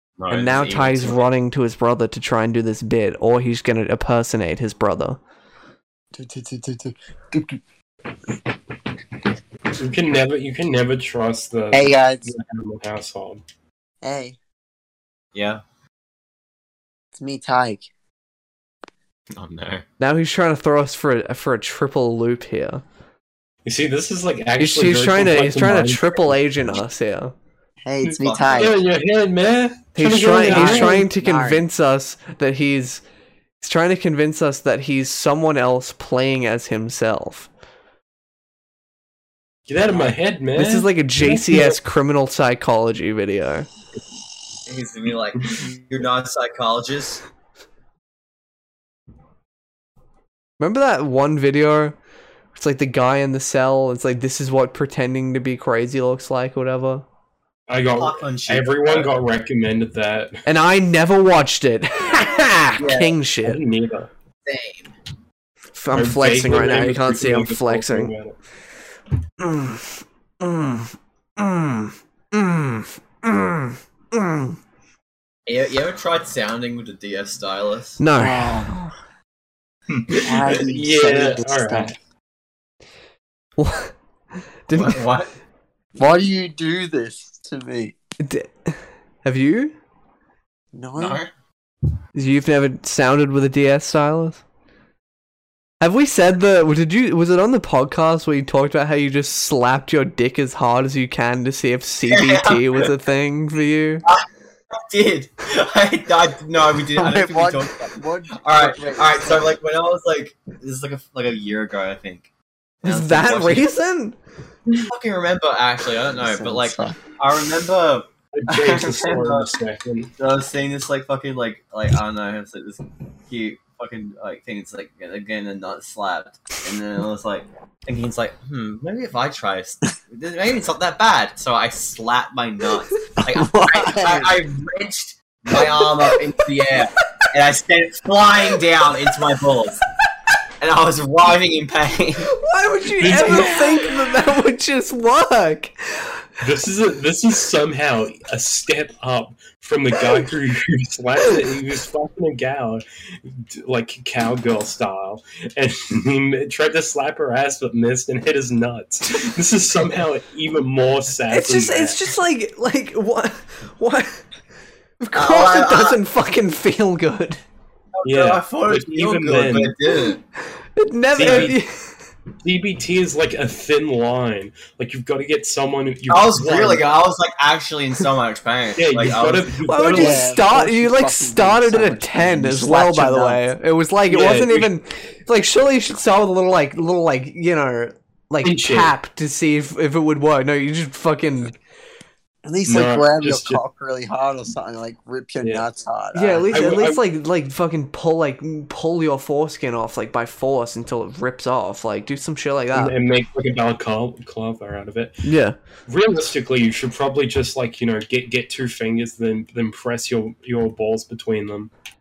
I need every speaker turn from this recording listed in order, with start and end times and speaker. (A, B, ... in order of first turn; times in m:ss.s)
0:00.2-0:01.2 A
0:00.3-0:05.2 B
0:06.1-0:07.6 C
0:09.8-0:13.4 D
0:11.7-0:12.3 C
0:14.0-0:14.4 C
0:15.3-0:15.6 A
0:17.2-0:17.9 C
0:19.3-0:19.8 A
0:20.0-0:22.8 B
0:23.6-0:26.4 D
0:24.6-0:27.3 B
0:27.8-0:28.8 C
0:28.1-0:28.8 A
0:28.4-0:31.0 D
0:30.0-0:33.0 B
0:30.4-0:31.6 C
0:33.6-0:37.5 B
0:39.7-0:41.8 D
0:40.6-0:43.7 B
0:44.7-0:47.2 A
0:50.6-0:52.0 B
0:52.6-0:57.0 B
0:57.7-1:00.4 D
0:58.0-0:59.1 A
1:00.5-1:03.6 B
1:02.8-1:03.2 A
1:03.4-1:04.1 D
1:04.5-1:04.9 A
1:05.8-1:08.1 B
1:05.9-1:08.4 D
1:09.4-1:14.6 B
1:15.5-1:18.0 A
1:18.0-1:18.8 B
1:18.2-1:18.9 C
1:20.1-1:22.0 D
1:20.1-1:21.9 C
1:23.6-1:23.9 B
1:24.7-1:25.1 B
1:24.7-1:25.3 A
1:26.0-1:28.0 C
1:28.2-1:29.8 B
1:30.7-1:31.2 C
1:31.0-1:31.3 A
1:32.2-1:34.4 B
1:35.8-1:44.1 B
1:42.1-1:42.9 A
1:44.0-1:52.3 A
1:47.0-1:49.5 C
1:52.8-1:53.7 A
1:52.8-1:54.2 B
1:54.9-1:59.5 A
1:56.2-1:57.0 C
1:58.3-2:00.1 D
2:00.2-2:19.8 A
2:13.2-2:14.4 C
2:20.6-2:22.4 A
2:22.3-2:26.2 B
2:23.0-2:23.9 D
2:26.4-2:42.0 D
2:41.3-2:44.2 B
2:45.0-2:47.4 B
2:45.2-2:46.0 A
2:47.9-2:50.2 A
2:48.0-2:49.8 D
2:50.8-2:51.9 B
2:51.1-2:51.6 D
2:51.2-2:51.5 A
2:52.4-2:56.9 D
2:56.1-2:59.5 A
2:58.8-3:00.3 D
2:59.7-3:11.6 B
2:59.9-3:03.4 C
3:04.1-3:04.7 D
3:08.4-3:08.9 D
3:12.4-3:16.5 C
3:12.7-3:13.6 D
3:16.1-3:23.0 B
3:16.5-3:17.0 D
3:22.7-3:25.2 D
3:25.2-3:25.6 B
3:25.9-3:31.7 D